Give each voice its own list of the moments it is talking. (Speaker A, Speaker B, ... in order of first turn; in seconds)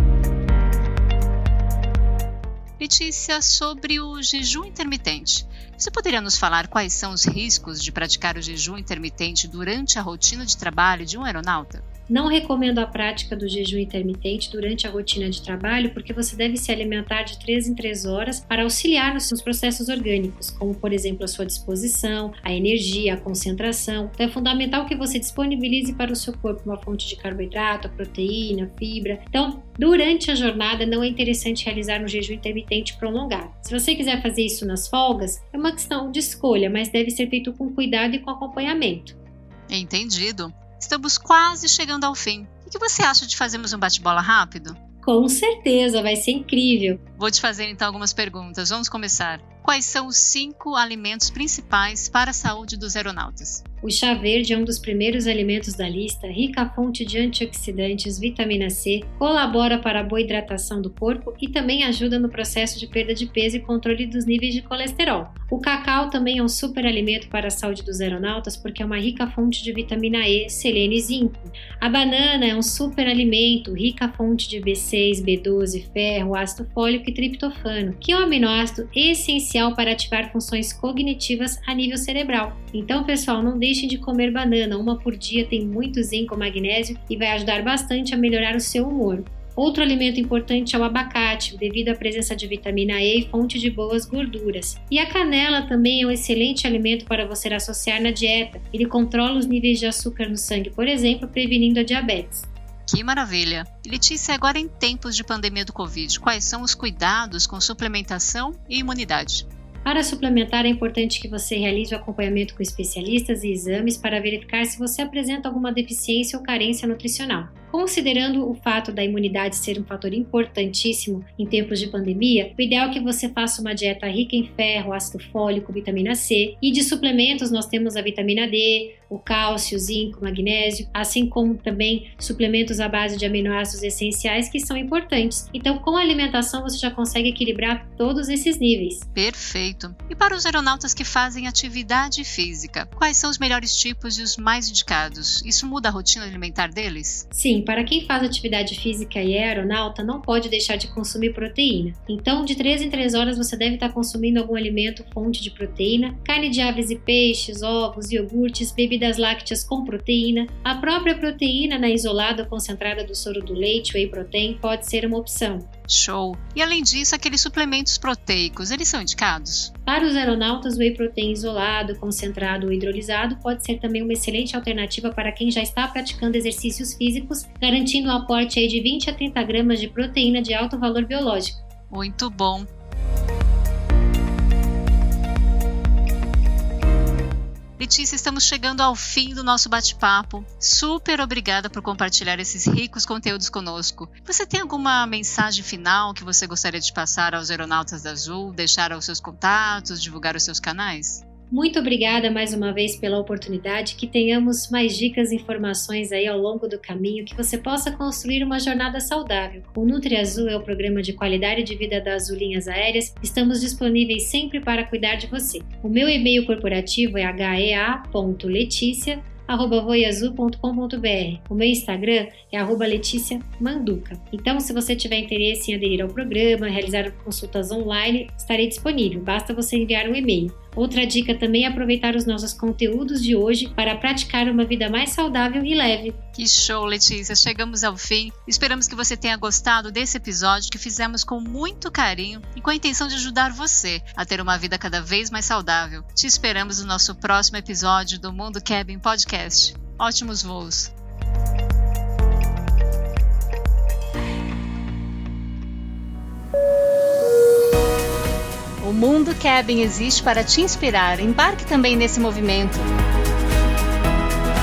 Speaker A: 2.8-11.8, 39.7-44.8, 47.2-53.6, 102.9-109.5, 139.2-147.2, 165.9-169.7, 181.9-182.7, 187.8-201.2, 236.3-250.9, 258.8-262.9
Speaker B: 12.1-39.1, 45.0-47.0, 53.8-102.5, 109.8-139.1, 147.3-165.7, 169.9-181.6, 201.5-236.2